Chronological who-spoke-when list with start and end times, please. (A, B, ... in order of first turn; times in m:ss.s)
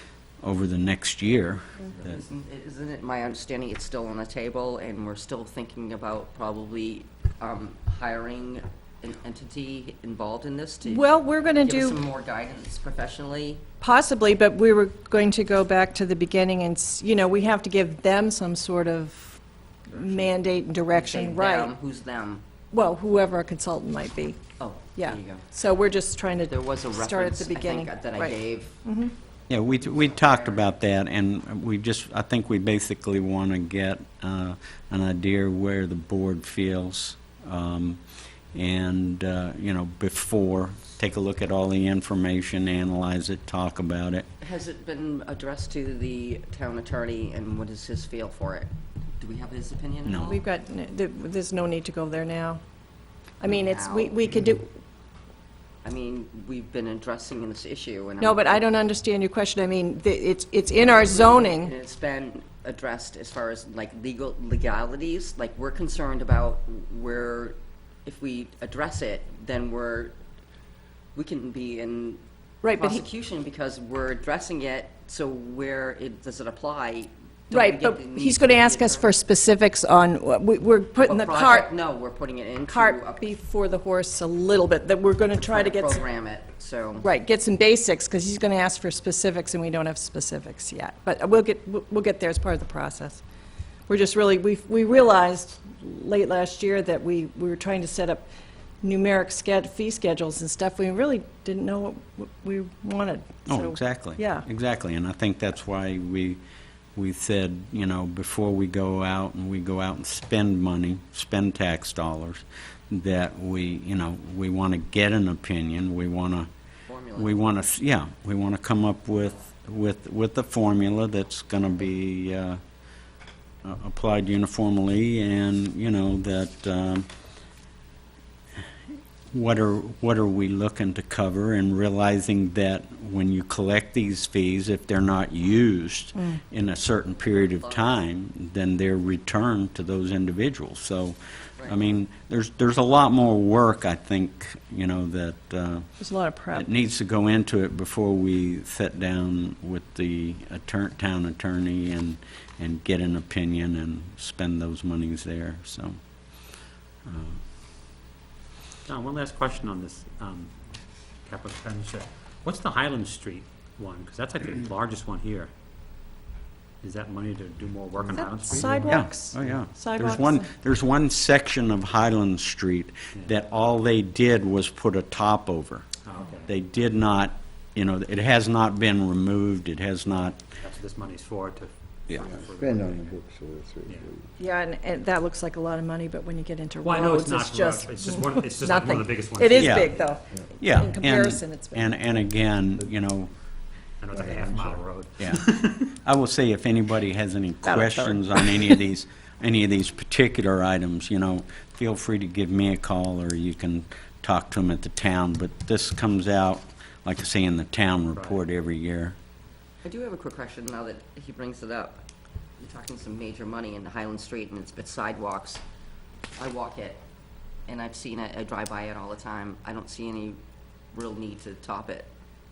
0:00.4-0:02.2 A
0:02.1-0:13.6 B
0:10.8-0:12.0 C
0:13.8-0:21.7 C
0:20.9-0:22.4 B
0:22.7-0:24.4 C
0:24.6-0:25.4 B
0:25.0-0:29.1 C
0:26.4-0:28.8 B
0:29.5-0:38.0 A
0:29.9-0:30.6 B
0:38.5-0:44.3 A
0:44.4-0:50.4 B
0:50.0-0:50.4 A
0:50.3-0:52.6 C
0:53.4-0:54.7 C
0:53.4-0:54.2 B
0:55.8-0:58.6 B
0:58.2-1:01.7 C
1:00.8-1:10.2 B
1:11.1-1:19.1 B
1:12.6-1:13.0 C
1:17.5-1:21.7 C
1:21.0-1:23.3 B
1:22.7-1:26.0 C
1:25.4-1:27.1 B
1:27.0-1:33.2 C
1:33.9-1:38.3 C
1:38.8-1:44.4 C
1:43.5-1:46.4 A
1:47.0-1:56.5 A
1:56.9-1:57.4 B
1:57.2-2:02.6 A
2:03.6-2:07.1 A
2:09.3-2:25.9 A
2:17.2-2:17.9 B
2:26.0-2:26.7 C
2:26.5-2:36.0 A
2:37.0-2:37.4 A
2:38.9-2:40.5 D
2:41.2-2:45.5 D
2:46.8-2:49.6 D
2:48.0-2:50.5 C
2:48.8-2:55.9 A
2:56.0-2:56.5 D
2:56.4-3:00.4 A
3:00.6-3:03.1 D
3:02.2-3:04.4 E
3:04.4-3:12.0 C
3:06.8-3:10.2 D
3:09.6-3:10.0 A
3:10.6-3:13.3 A
3:14.0-3:15.9 D
3:14.1-3:14.8 E
3:15.2-3:29.2 A
3:17.6-3:18.8 C
3:28.1-3:28.4 D
3:29.8-3:32.0 B
3:32.6-3:35.6 B
3:36.4-3:37.0 B
3:37.7-3:40.4 B
3:40.9-3:42.1 B